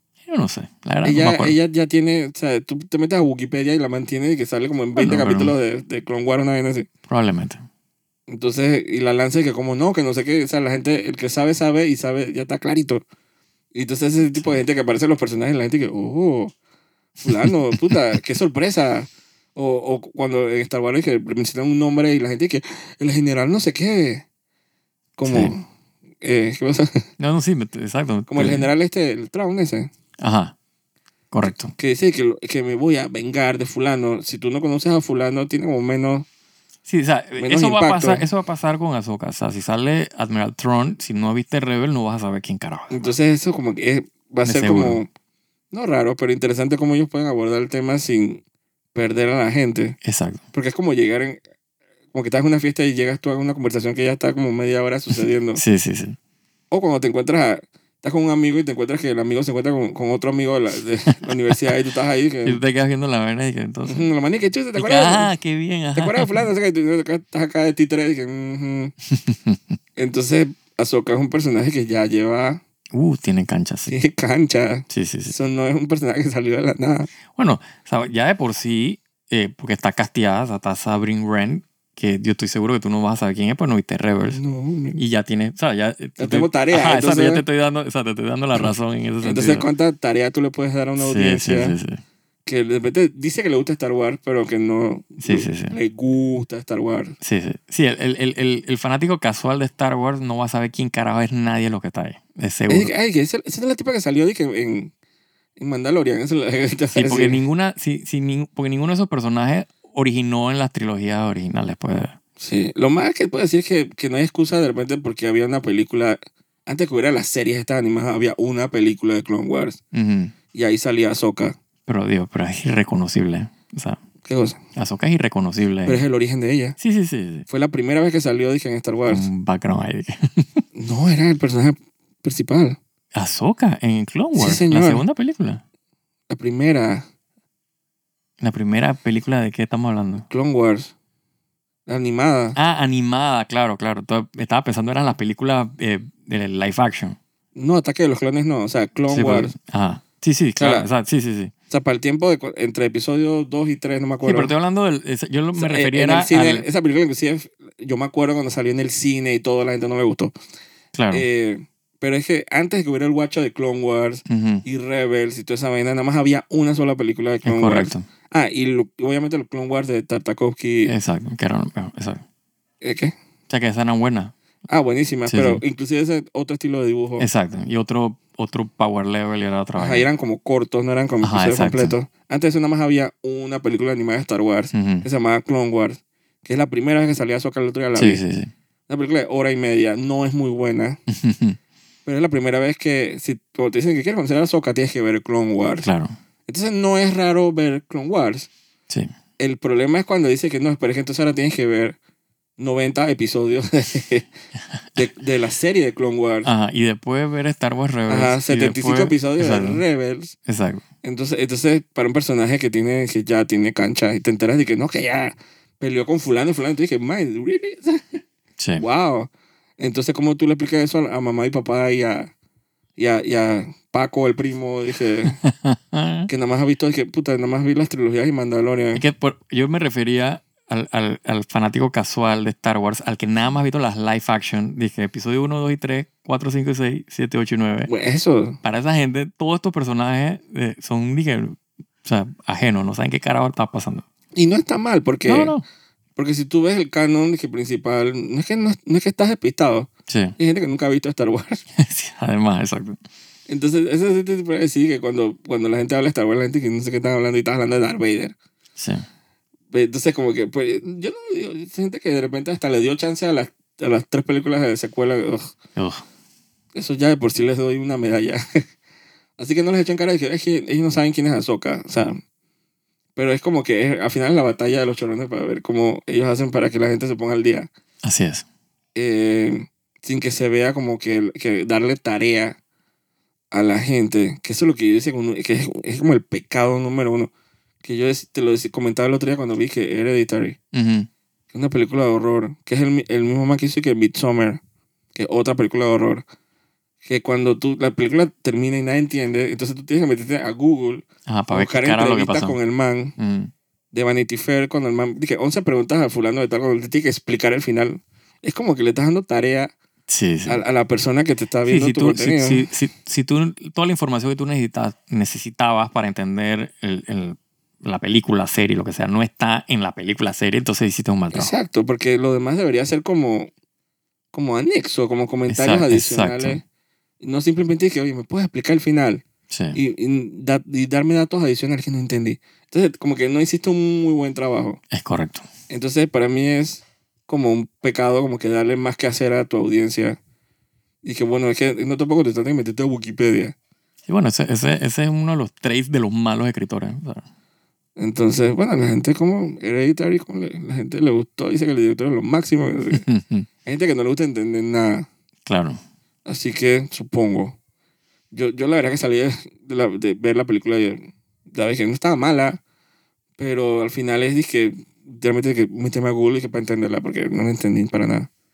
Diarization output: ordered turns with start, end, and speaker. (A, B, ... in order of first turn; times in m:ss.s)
0:00.3-0:01.6 A
0:01.0-0:06.9 B
0:05.0-0:05.5 A
0:07.1-0:07.6 A
0:08.3-0:13.0 B
0:13.7-0:16.5 B
0:17.2-0:24.2 B
0:25.2-0:25.7 B
0:25.3-0:25.5 A
0:26.2-0:27.0 B
0:27.2-0:28.7 A
0:28.3-0:29.9 B
0:30.2-0:30.5 A
0:31.3-0:31.7 A
0:31.7-0:36.3 B
0:36.9-0:43.1 A
0:37.4-0:38.2 B
0:42.9-0:45.1 B
0:44.4-0:45.0 A
0:45.7-0:48.4 B
0:48.9-0:50.0 B
0:50.0-0:50.4 A
0:50.5-0:51.4 B
0:52.1-0:55.6 B
0:55.6-0:56.2 A
0:56.7-1:02.6 B
1:02.4-1:04.1 A
1:03.9-1:05.3 B
1:04.8-1:06.4 A
1:06.0-1:08.9 B
1:09.1-1:09.8 A
1:10.0-1:12.6 B
1:12.9-1:13.9 A
1:13.9-1:17.1 B
1:14.9-1:15.4 A
1:17.3-1:24.4 A
1:24.3-1:25.0 B
1:25.0-1:29.6 A
1:26.2-1:27.4 B
1:29.2-1:31.8 B
1:31.0-1:32.0 A
1:32.5-1:37.2 B
1:35.2-1:35.8 A
1:37.2-1:42.9 A
1:42.7-1:44.9 B
1:45.6-1:47.4 B
1:46.9-1:52.2 A
1:52.4-1:59.8 B
1:59.9-2:00.3 A
2:00.5-2:01.6 B
2:01.9-2:04.0 A
2:04.2-2:04.6 B
2:04.8-2:06.0 A
2:05.9-2:06.8 B
2:06.8-2:07.5 A
2:07.5-2:09.3 B
2:09.1-2:10.6 A
2:10.8-2:12.8 B
2:13.1-2:15.6 A
2:14.4-2:15.0 B
2:16.3-2:17.1 B
2:18.4-2:20.3 A
2:20.3-2:20.9 B
2:21.9-2:22.6 B
2:22.6-2:27.2 A
2:27.6-2:29.5 B
2:29.1-2:31.5 A
2:30.6-2:30.9 B
2:31.7-2:34.5 B
2:34.2-2:36.7 A
2:35.6-2:40.3 B
2:40.9-2:41.3 A
2:41.1-2:50.9 B
2:44.3-2:44.6 A
2:47.4-2:48.1 A
2:50.8-2:52.2 A
2:52.8-2:53.1 B
2:53.5-2:54.3 A
2:54.7-2:57.3 B
2:55.3-2:55.6 A
2:57.2-3:00.1 A
2:59.8-3:08.2 B
3:01.2-3:02.0 A
3:04.7-3:05.1 A
3:08.0-3:08.5 A
3:08.9-3:11.0 B
3:11.1-3:11.6 A
3:12.1-3:15.9 B
3:15.8-3:16.2 A
3:16.5-3:18.5 B
3:19.4-3:22.0 B
3:22.6-3:24.3 B
3:25.0-3:26.5 B
3:26.4-3:29.8 A
3:28.1-3:30.4 B
3:30.5-3:30.8 A
3:31.0-3:38.2 B
3:38.6-3:38.8 A
3:38.8-3:42.3 B
3:43.0-3:45.4 B
3:45.4-3:46.3 A
3:46.3-3:49.0 B
3:49.0-3:57.9 A
3:57.9-3:58.6 B
3:58.6-4:04.0 A
4:04.4-4:05.5 B
4:05.3-4:05.6 A
4:06.2-4:11.6 B
4:10.1-4:10.4 A
4:11.8-4:13.0 A
4:13.5-4:18.3 B
4:18.8-4:19.0 A
4:19.7-4:25.5 B
4:25.8-4:26.0 A
4:26.8-4:28.6 B
4:29.4-4:32.2 B
4:33.2-4:37.7 B
4:38.0-4:38.4 A
4:39.0-4:42.6 B
4:43.5-4:47.3 B
4:47.8-4:50.6 B
4:50.7-4:51.1 A
4:51.5-4:54.6 B
4:55.2-4:56.2 B
4:57.0-5:03.2 B
5:01.3-5:02.6 A
5:03.2-5:03.5 A
5:03.9-5:09.7 B
5:10.1-5:10.6 A
5:10.5-5:12.7 B
5:11.7-5:21.5 A
5:21.3-5:23.5 B
5:24.3-5:26.6 B
5:25.5-5:26.6 A
5:27.2-5:34.8 B
5:29.5-5:29.8 A
5:34.9-5:35.4 A
5:35.7-5:40.2 B
5:41.0-5:43.6 B
5:44.1-5:47.2 A
5:48.0-5:53.0 B
5:52.9-5:53.5 A
5:53.6-5:55.1 B
5:55.5-5:55.8 A
5:56.3-5:57.6 B
5:58.3-6:02.6 B
6:03.4-6:08.3 B